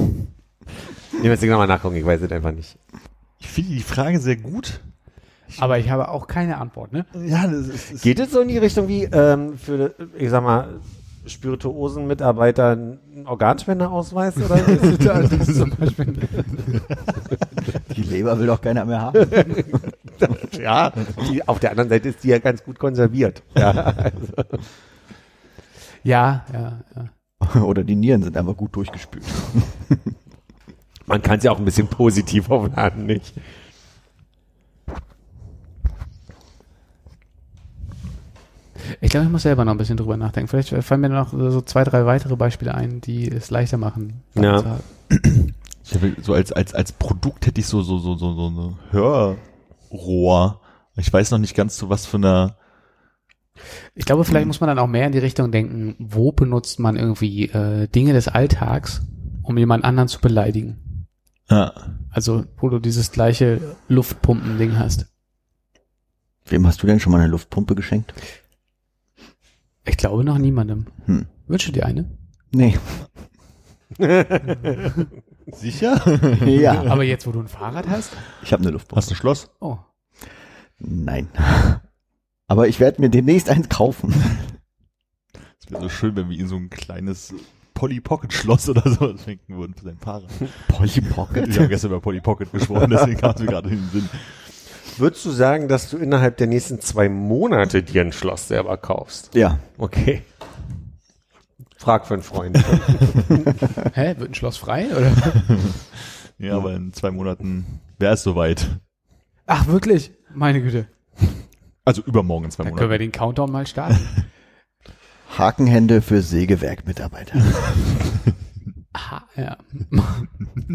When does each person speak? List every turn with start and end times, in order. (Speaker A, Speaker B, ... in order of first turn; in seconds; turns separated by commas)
Speaker A: 1.1-2.8, Speaker B: 3.4-4.9, Speaker B: 5.5-5.8, Speaker C: 5.6-7.1, Speaker B: 7.1-8.1, Speaker A: 8.0-15.2, Speaker C: 14.7-16.7, Speaker D: 17.9-19.7, Speaker A: 19.2-24.6, Speaker C: 26.0-27.1, Speaker D: 27.4-30.0, Speaker A: 31.1-33.4, Speaker C: 39.0-44.9, Speaker A: 44.4-44.7, Speaker B: 45.8-52.6, Speaker C: 54.0-61.1, Speaker B: 61.5-62.1, Speaker C: 62.1-65.1, Speaker D: 66.5-68.2, Speaker C: 69.8-72.1, Speaker D: 72.5-73.2, Speaker A: 74.0-74.7, Speaker B: 75.5-76.9, Speaker D: 76.3-77.2, Speaker C: 76.9-78.2, Speaker D: 78.4-79.3, Speaker B: 78.9-79.5, Speaker C: 79.6-79.8, Speaker D: 80.8-81.9, Speaker D: 82.5-84.5, Speaker B: 85.5-94.7, Speaker D: 90.7-91.8, Speaker A: 94.9-100.3, Speaker D: 99.3-99.6, Speaker A: 101.8-103.5, Speaker C: 103.9-105.8, Speaker B: 105.8-108.9, Speaker C: 109.5-111.5, Speaker B: 111.8-113.2, Speaker C: 112.6-114.2, Speaker D: 115.3-117.9, Speaker C: 118.9-120.3